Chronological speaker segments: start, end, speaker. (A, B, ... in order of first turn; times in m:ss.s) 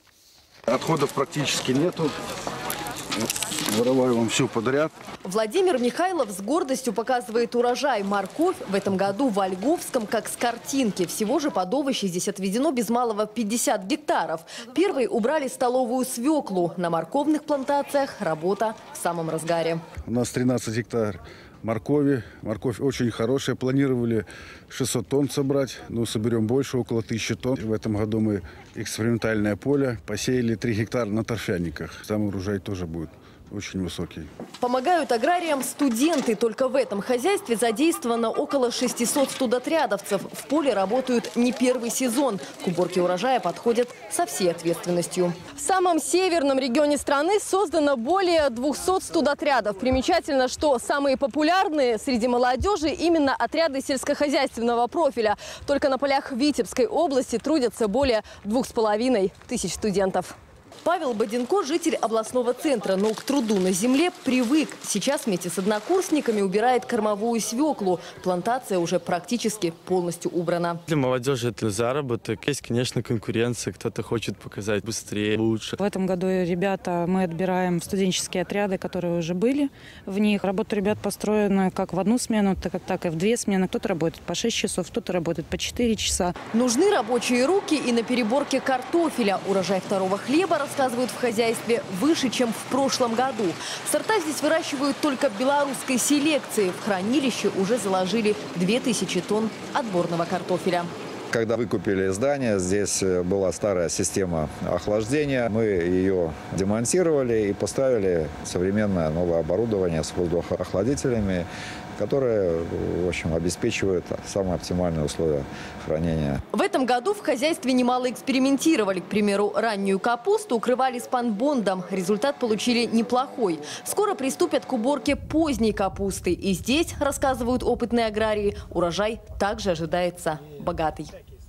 0:00.7-0:02.1 A
0:03.2-0:04.9 A
0:05.2-0:19.8 B
0:20.1-0:34.3 A
0:34.6-1:10.8 B
1:10.9-1:15.8 C
1:15.8-1:26.4 D
1:26.5-1:40.9 B
1:41.3-1:56.4 E
1:56.5-2:11.1 B